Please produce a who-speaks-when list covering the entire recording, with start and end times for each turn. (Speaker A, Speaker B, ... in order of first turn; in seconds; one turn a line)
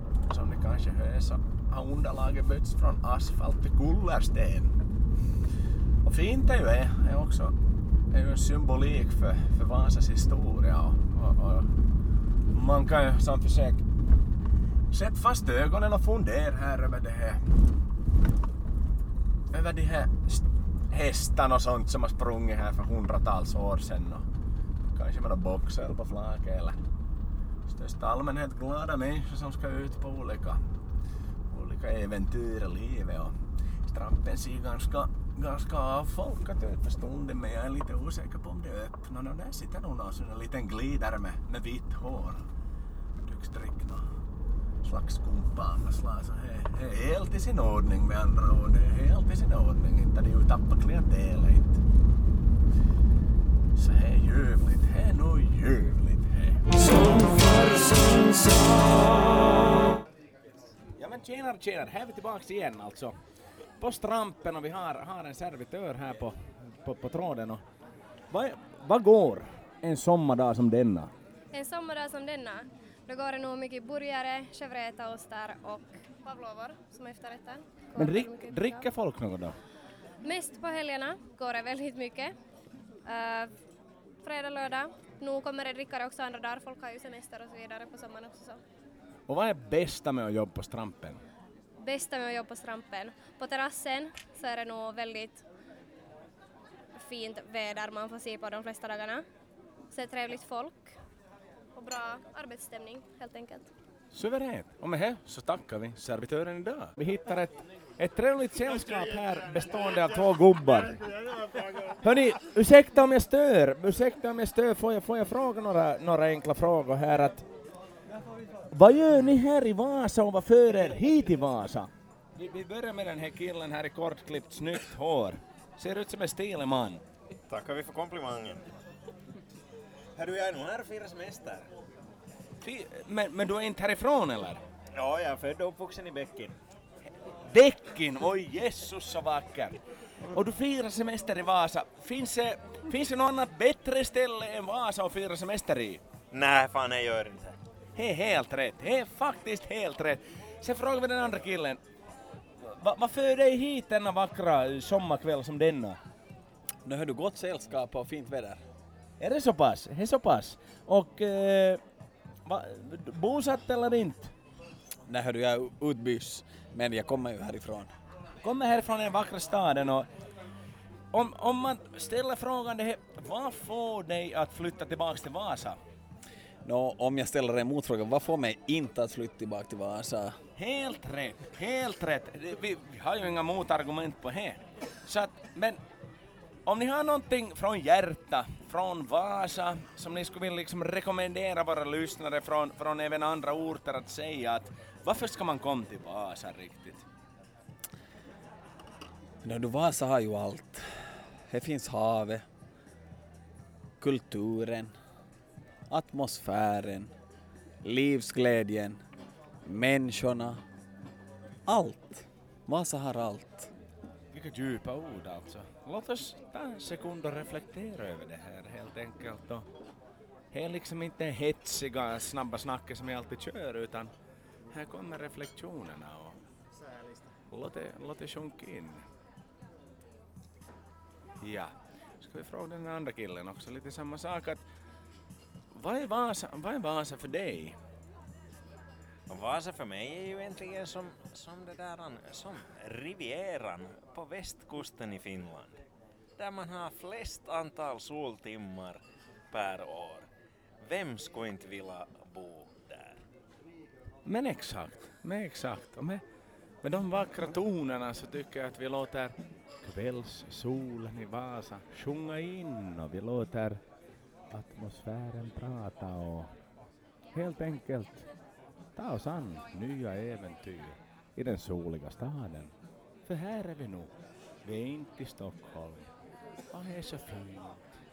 Speaker A: 0.2-4.7
Speaker A: 6.0-7.5
Speaker A: 8.1-11.7
Speaker A: 12.5-13.8
Speaker A: 14.9-17.4
Speaker A: 19.5-24.3
Speaker A: 24.9-26.8
Speaker A: 27.6-30.6
Speaker A: 31.5-33.3
Speaker A: 33.9-42.4
Speaker A: 43.2-44.1
Speaker A: 44.8-51.8
Speaker A: 53.7-58.5
Speaker A: 61.0-63.1
Speaker A: 63.8-67.6
Speaker A: 68.3-71.1
Speaker B: 71.5-78.9
Speaker A: 78.0-79.5
Speaker B: 80.2-82.3
Speaker B: 83.0-83.5
Speaker B: 84.2-88.6
Speaker A: 89.3-91.2
Speaker B: 91.8-95.4
Speaker B: 97.0-99.2
Speaker B: 99.9-100.9
Speaker B: 101.8-103.7
Speaker A: 104.1-111.0
Speaker A: 111.8-117.4
Speaker A: 118.7-127.0
Speaker C: 127.5-128.7
Speaker C: 130.2-131.6
Speaker A: 132.6-134.6
Speaker C: 134.9-136.6
Speaker A: 137.5-139.8
Speaker A: 140.3-146.0
Speaker C: 146.3-147.6
Speaker A: 147.9-151.8
Speaker A: 152.6-156.0
Speaker D: 156.8-158.6
Speaker A: 159.2-161.8
Speaker A: 162.4-164.3
Speaker D: 165.1-167.9
Speaker A: 168.4-170.1
Speaker A: 171.1-175.8
Speaker D: 176.6-180.4
Speaker A: 180.6-185.8
Speaker A: 186.7-197.0
Speaker D: 199.4-202.5
Speaker D: 204.0-205.0
Speaker D: 205.9-207.1
Speaker D: 207.8-209.0
Speaker D: 209.6-210.6
Speaker D: 211.7-213.7
Speaker A: 214.3-219.7
Speaker A: 220.5-224.1
Speaker A: 224.7-226.4
Speaker A: 227.5-229.0
Speaker A: 231.4-234.6
Speaker A: 235.7-237.8
Speaker C: 239.3-245.8
Speaker C: 246.4-250.3
Speaker C: 250.8-253.2
Speaker A: 254.2-256.2
Speaker A: 256.8-263.8
Speaker A: 264.5-266.5
Speaker A: 267.3-268.2
Speaker A: 268.9-272.7
Speaker A: 273.2-276.1
Speaker A: 276.7-277.9